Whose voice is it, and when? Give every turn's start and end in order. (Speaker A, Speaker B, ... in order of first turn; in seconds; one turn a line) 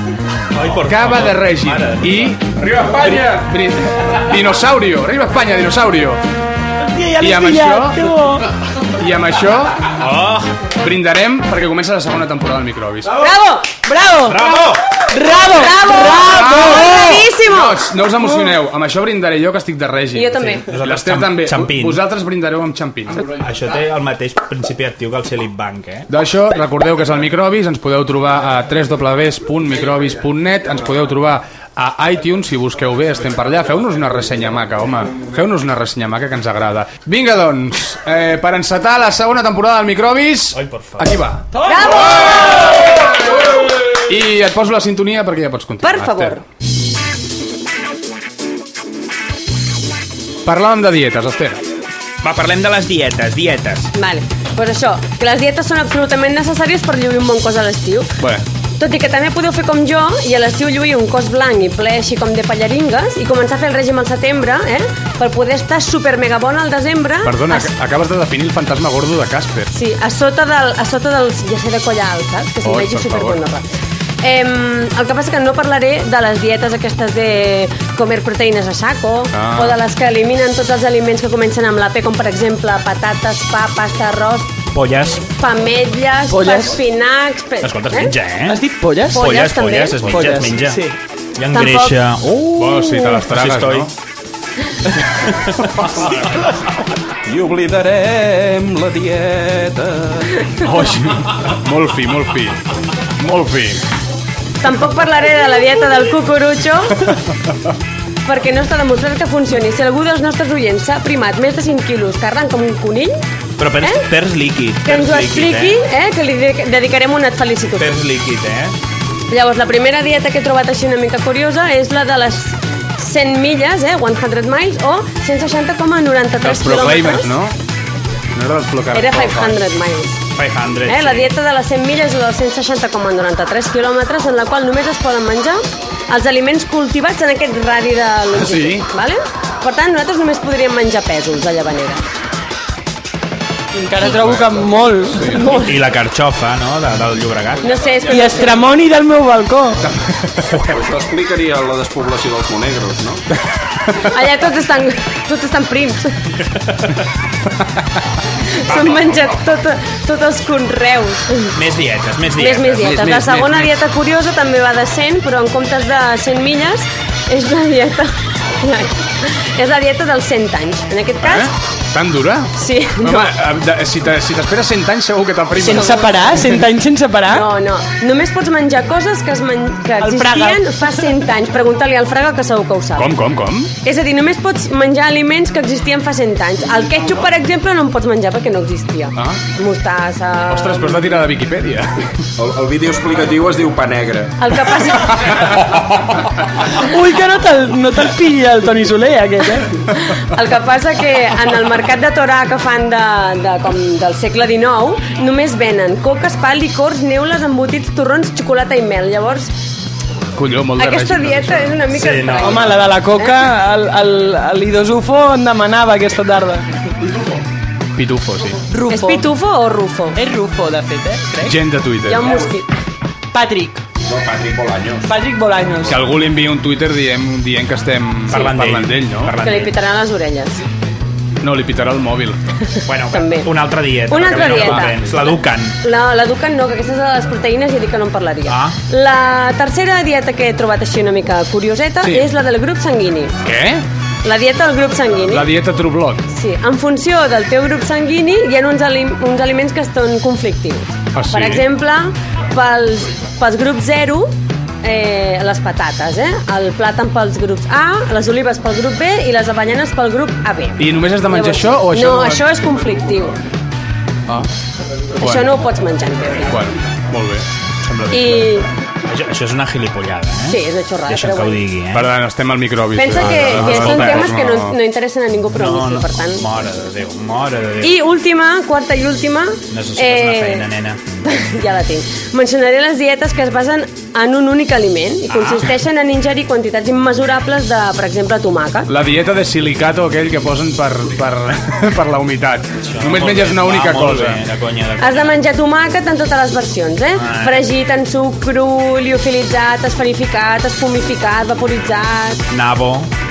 Speaker A: 0.5-3.0
Speaker B: 0.9-6.2
Speaker C: 6.8-8.5
Speaker B: 7.2-8.1
Speaker B: 9.0-9.9
Speaker A: 10.0-10.6
Speaker B: 10.8-13.2
Speaker D: 13.2-13.7
Speaker C: 13.8-17.2
Speaker A: 14.2-14.8
Speaker D: 15.4-17.8
Speaker B: 16.3-23.3
Speaker D: 20.1-20.7
Speaker A: 20.7-22.0
Speaker A: 23.2-26.1
Speaker B: 26.1-41.5
Speaker A: 40.5-41.1
Speaker D: 41.6-42.7
Speaker B: 44.1-46.4
Speaker D: 45.8-46.4
Speaker B: 50.5-51.6
Speaker A: 52.2-53.9
Speaker D: 54.0-58.1
Speaker D: 58.8-67.7
Speaker B: 67.2-69.7
Speaker D: 69.7-73.6
Speaker B: 72.7-73.4
Speaker D: 74.2-84.5
Speaker B: 79.3-79.8
Speaker A: 84.7-85.3
Speaker D: 85.4-88.2
Speaker C: 86.3-86.8
Speaker A: 87.6-90.8
Speaker C: 88.5-89.3
Speaker D: 89.1-90.3
Speaker C: 90.0-91.0
Speaker A: 91.4-93.9
Speaker D: 91.5-92.0
Speaker B: 92.5-93.9
Speaker E: 97.2-100.4
Speaker B: 100.6-102.6
Speaker B: 103.2-103.8
Speaker D: 104.6-107.0
Speaker D: 108.3-113.2
Speaker A: 113.6-115.8
Speaker D: 114.8-118.0
Speaker A: 117.8-118.7
Speaker D: 119.3-127.3
Speaker B: 126.4-127.5
Speaker B: 128.3-129.6
Speaker D: 128.9-130.2
Speaker A: 130.3-131.3
Speaker D: 130.9-142.0
Speaker B: 138.3-138.9
Speaker C: 143.7-145.6
Speaker B: 144.0-144.6
Speaker B: 145.1-145.4
Speaker D: 145.3-145.7
Speaker A: 145.5-147.8
Speaker D: 147.6-148.6
Speaker C: 148.1-149.8
Speaker E: 150.5-153.2
Speaker D: 154.0-156.2
Speaker D: 158.5-161.5
Speaker A: 161.6-163.1
Speaker D: 162.4-171.5
Speaker E: 162.9-163.2
Speaker B: 171.2-176.1
Speaker D: 172.6-173.3
Speaker C: 175.6-177.4
Speaker D: 175.7-176.2
Speaker D: 177.3-183.1
Speaker C: 180.0-180.7
Speaker B: 183.0-183.7
Speaker D: 183.8-190.9
Speaker B: 190.5-192.0
Speaker E: 192.4-194.4
Speaker D: 194.4-195.3
Speaker C: 196.8-199.7
Speaker D: 200.1-209.5
Speaker B: 210.4-211.8
Speaker D: 210.8-213.3
Speaker A: 211.9-212.9
Speaker C: 212.4-216.7
Speaker B: 218.0-218.6
Speaker C: 218.7-219.3
Speaker D: 218.9-220.2
Speaker C: 220.2-221.6
Speaker B: 221.4-222.3
Speaker D: 222.1-222.7
Speaker C: 223.3-223.8
Speaker E: 224.0-225.1
Speaker C: 225.1-226.0
Speaker B: 225.9-229.4
Speaker A: 228.3-229.8
Speaker D: 229.4-230.6
Speaker B: 231.4-232.4
Speaker A: 232.9-235.8
Speaker D: 233.1-233.5
Speaker D: 234.1-235.0
Speaker B: 234.3-234.9
Speaker D: 235.8-243.4
Speaker A: 238.5-238.8
Speaker B: 243.4-243.8
Speaker D: 244.2-245.5
Speaker B: 245.3-246.2
Speaker D: 246.3-254.3
Speaker B: 251.2-251.7
Speaker D: 254.8-263.4
Speaker B: 260.8-262.4
Speaker D: 265.2-266.6
Speaker B: 265.2-265.5
Speaker B: 266.5-267.4
Speaker D: 268.1-268.7
Speaker A: 268.1-268.4
Speaker A: 269.1-272.1
Speaker D: 270.5-271.6
Speaker B: 271.9-274.8
Speaker D: 272.9-276.4
Speaker A: 273.3-274.4
Speaker A: 275.6-278.0
Speaker D: 277.8-280.7
Speaker A: 279.7-281.0
Speaker D: 281.2-288.9
Speaker A: 285.3-285.7
Speaker B: 288.9-294.4
Speaker A: 292.8-295.4
Speaker D: 295.0-302.4
Speaker A: 297.2-297.6
Speaker A: 302.5-303.1